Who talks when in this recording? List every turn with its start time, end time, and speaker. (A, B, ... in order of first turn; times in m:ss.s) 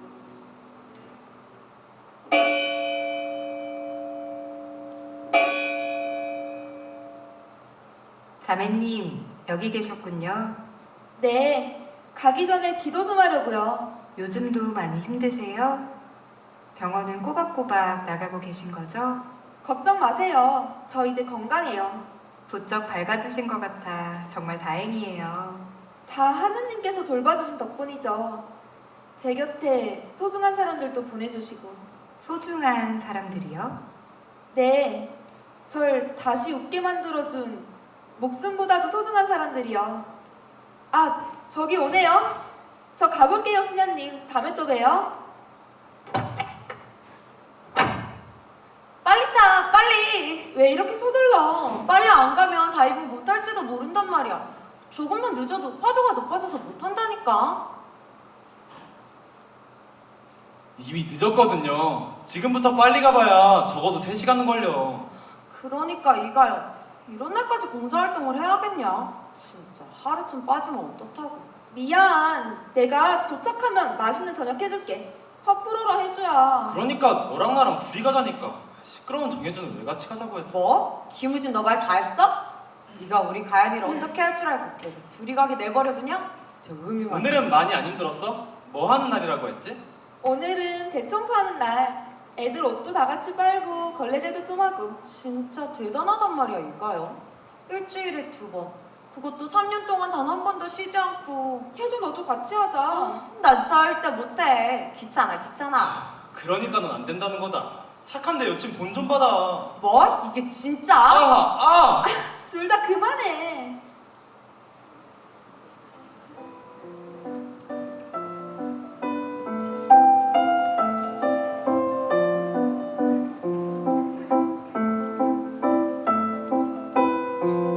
0:08.4-0:10.6 A
0:11.2-0:13.9 B
0:14.2-0:15.9 A
0:16.7-0:19.2 A
0:19.6-0:22.1 B
0:22.5-0:25.7 A
0:26.1-0:28.4 B
0:29.2-0:31.9 B
0:32.2-0:33.8 A
0:34.5-0:35.1 B
0:35.7-0:40.1 B
0:40.9-0:42.4 B
0:43.0-0:45.1 B
0:49.0-0:50.5 C
0:50.5-0:51.8 B
0:51.8-0:57.6 C
1:00.8-1:05.1 D
1:05.5-1:11.5 C
1:11.7-1:16.8 B
1:16.6-1:20.5 D
1:20.5-1:22.4 C
1:22.9-1:27.4 C
1:27.1-1:29.8 D
1:30.2-1:35.0 B
1:35.0-1:41.7 C
1:41.8-1:43.2 B
1:42.9-1:46.0 C
1:45.8-1:49.7 D
1:49.8-1:51.3 C
1:51.0-1:52.1 D
1:52.0-1:53.8 B